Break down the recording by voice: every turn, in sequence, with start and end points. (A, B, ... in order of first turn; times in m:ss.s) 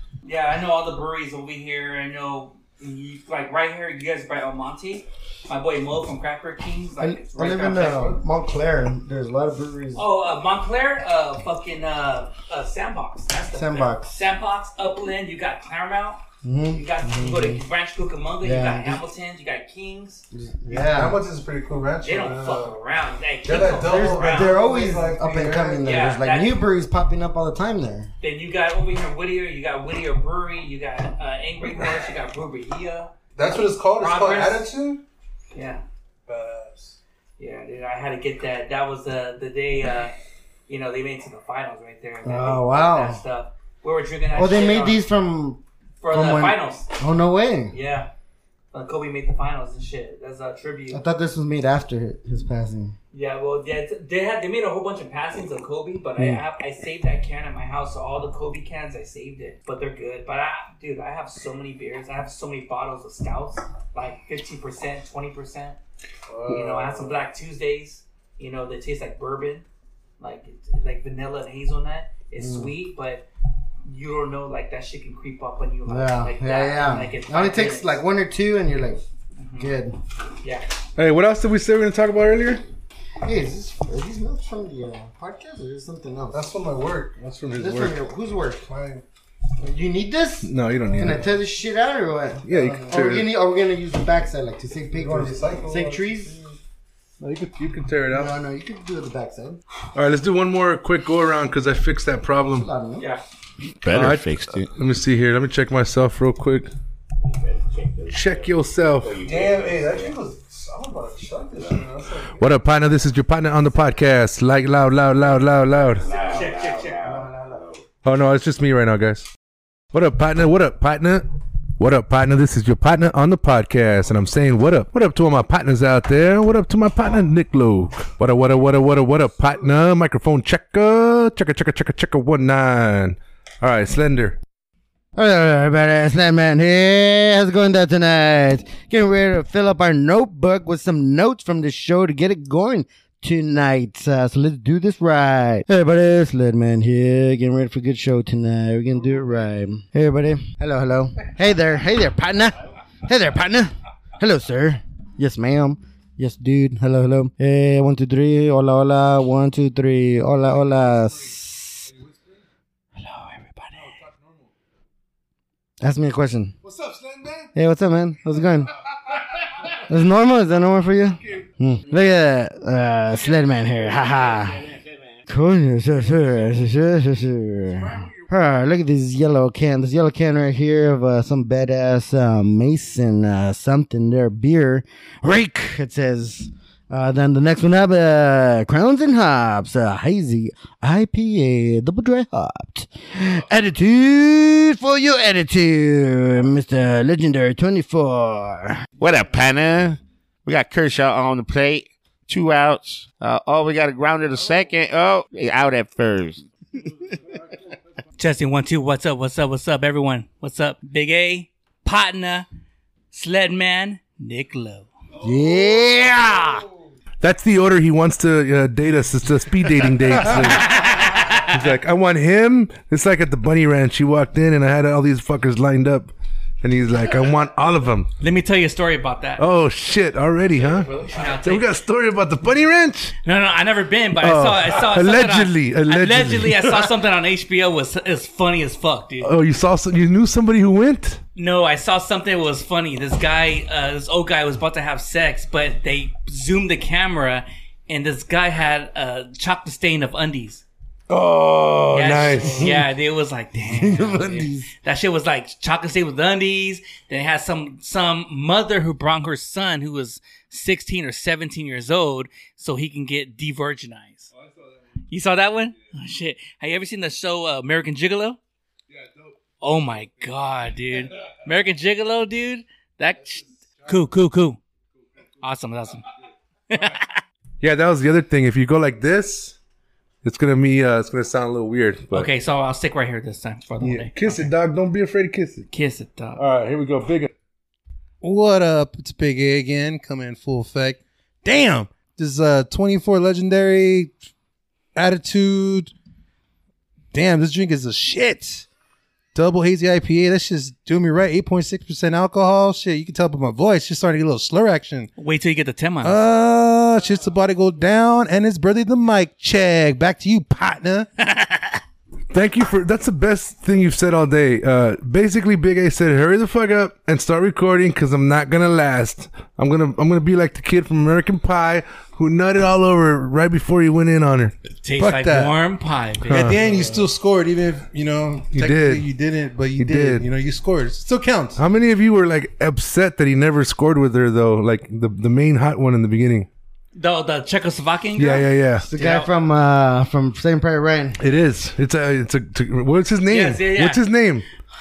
0:00.2-0:08.2 A
0:07.0-0:10.0 B
0:09.9-0:20.2 A
0:13.5-0:14.2 B
0:16.4-0:17.6 B
0:18.4-0:19.0 B
0:20.3-0:21.2 B
0:20.7-0:22.8 C
0:22.0-0:24.6 A
0:23.4-0:25.8 C
0:23.5-0:28.1 B
0:25.8-0:26.6 A
0:28.2-0:33.1 A
0:33.3-0:35.0 C
0:34.0-0:34.7 A
0:35.5-0:35.8 A
0:36.3-0:37.0 C
0:37.4-0:40.1 A
0:40.7-0:45.0 A
0:42.2-0:43.2 B
0:44.3-0:47.7 B
0:46.0-0:46.8 A
0:47.7-0:48.1 A
0:48.7-0:51.0 A
0:50.9-0:52.9 B
0:53.1-1:05.8 A
1:06.3-1:07.2 C
1:06.5-1:09.6 A
1:10.2-1:13.2 A
1:12.4-1:12.7 B
1:13.8-1:18.0 A
1:15.8-1:19.0 B
1:19.4-1:19.7 A
1:19.6-1:20.0 B
1:20.4-1:20.7 A
1:21.0-1:22.6 D
1:23.2-1:26.4 B
1:26.3-1:27.4 C
1:27.3-1:27.9 D
1:27.6-1:28.6 B
1:28.6-1:29.0 C
1:29.6-1:36.3 B
1:30.4-1:31.3 D
1:30.9-1:31.2 C
1:32.4-1:33.3 D
1:34.9-1:36.6 C
1:37.2-1:38.3 D
1:38.1-1:39.6 B
1:39.9-1:42.7 D
1:42.5-1:43.0 B
1:43.6-1:44.7 E
1:43.9-1:46.7 D
1:47.2-1:50.2 E
1:48.1-1:49.1 D
1:49.2-1:52.4 C
1:52.4-1:56.1 D
1:55.9-1:57.8 E
1:56.1-1:57.0 A
1:57.0-1:57.6 B
1:58.0-1:59.3 D
1:59.9-2:14.4 D
2:15.1-2:41.9 B
2:43.0-2:43.9 B
2:45.8-2:46.6 B
2:46.6-2:47.5 D
2:47.5-2:48.7 B
2:49.8-2:54.6 B
2:53.6-2:55.2 E
2:55.3-3:18.8 B
2:57.9-2:58.2 D
3:19.0-3:27.2 E
3:28.2-3:32.5 A
3:33.1-3:34.9 A
3:35.2-3:36.6 B
3:37.2-3:48.1 D
3:40.2-3:41.6 A
3:48.2-3:49.4 A
3:49.4-3:53.2 D
3:50.9-3:51.7 A
3:53.2-3:59.3 A
3:54.2-3:56.9 D
3:59.2-4:01.2 D
4:01.4-4:10.6 A
4:11.1-4:12.9 D
4:11.9-4:24.3 A
4:13.6-4:14.7 B
4:24.4-4:24.7 D
4:25.1-4:28.4 A
4:28.9-4:29.3 D
4:29.6-4:34.6 A
4:35.4-4:36.1 A
4:36.7-4:37.2 A
4:37.6-4:39.6 D
4:40.2-4:42.3 D
4:42.1-4:44.5 A
4:43.8-4:45.7 D
4:45.7-4:46.4 A
4:46.4-4:47.3 D
4:48.2-4:54.1 C
4:54.9-4:55.9 C
4:57.1-4:58.6 C
4:59.3-5:05.1 C
5:05.2-5:06.2 A
5:06.0-5:11.1 C
5:11.2-5:11.8 A
5:12.3-5:24.5 D
5:24.8-5:27.1 A
5:25.0-5:25.5 C
5:26.2-5:31.6 C
5:26.3-5:26.6 D
5:28.5-5:29.0 D
5:29.8-5:30.3 D
5:31.6-5:36.5 D
5:36.9-5:39.3 A
5:38.2-5:38.9 D
5:38.8-5:41.2 B
5:41.2-5:44.4 D
5:43.3-5:44.0 A